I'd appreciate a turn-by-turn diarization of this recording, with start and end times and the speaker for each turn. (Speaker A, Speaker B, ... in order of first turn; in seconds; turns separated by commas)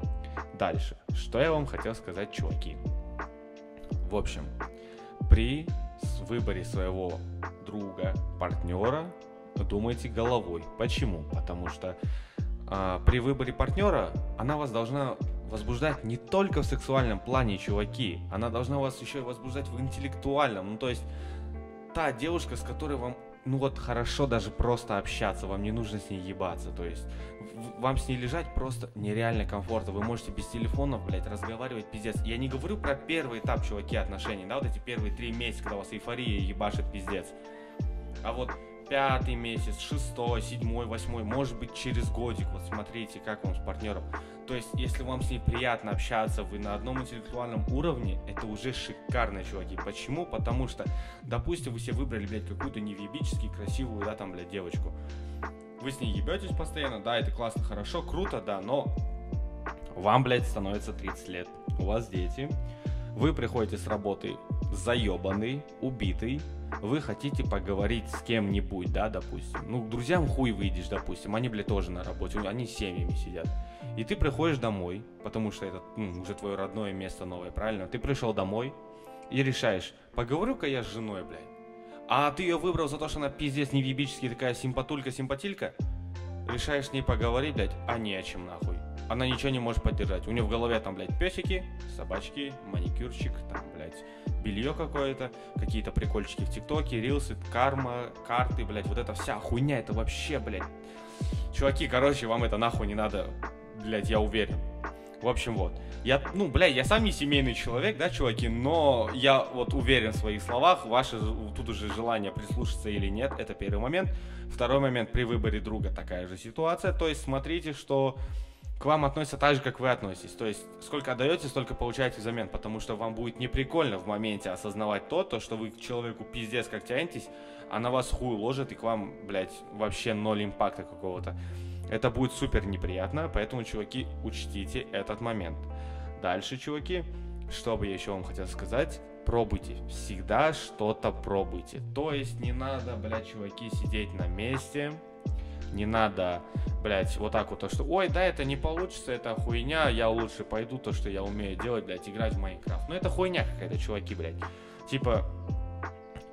Speaker A: 0.5-2.8, Speaker A: 4.0-4.5, Speaker A: 5.2-12.0, Speaker A: 12.7-21.1, Speaker A: 21.9-37.4, Speaker A: 38.2-55.0, Speaker A: 55.8-58.9, Speaker A: 59.9-62.6, Speaker A: 63.1-78.8, Speaker A: 79.3-81.5, Speaker A: 82.1-85.7, Speaker A: 86.4-100.7, Speaker A: 101.5-104.7, Speaker A: 105.2-118.2, Speaker A: 118.8-131.3, Speaker A: 131.9-145.0, Speaker A: 145.7-155.3